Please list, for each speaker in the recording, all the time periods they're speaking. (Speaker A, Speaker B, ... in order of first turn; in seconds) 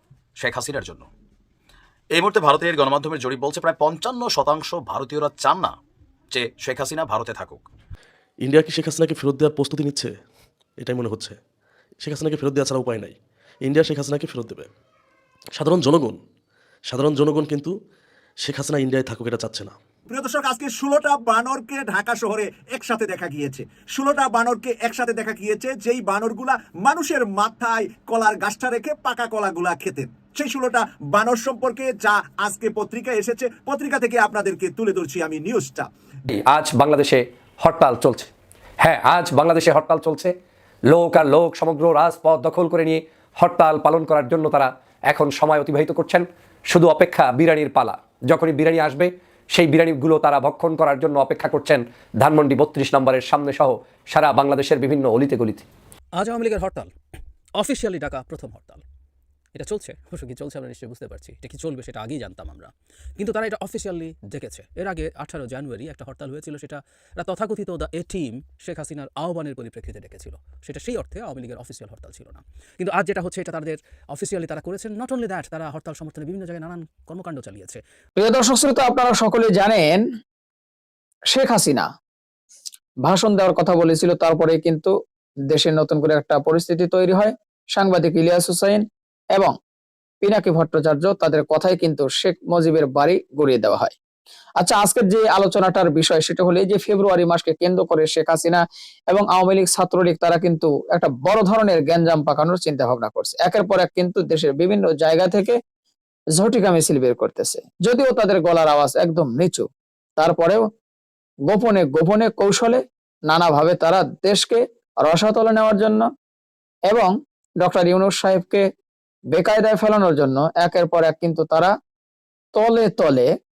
Speaker A: 0.4-1.1, 2.1-5.8, 6.3-7.7
Speaker B: 8.4-10.1, 10.8-11.4, 12.0-14.7, 15.6-16.2, 16.9-17.7, 18.4-19.8
Speaker C: 20.1-35.9
Speaker D: 36.3-40.3, 40.9-55.7
Speaker E: 56.2-56.9, 57.6-58.8, 59.5-77.8
Speaker F: 78.2-80.0, 81.3-81.9, 83.0-84.9, 85.5-89.5, 90.2-93.9, 94.6-105.6, 106.3-109.7, 110.2-110.6, 111.5-116.1, 116.9-118.6, 119.3-121.7, 122.5-123.3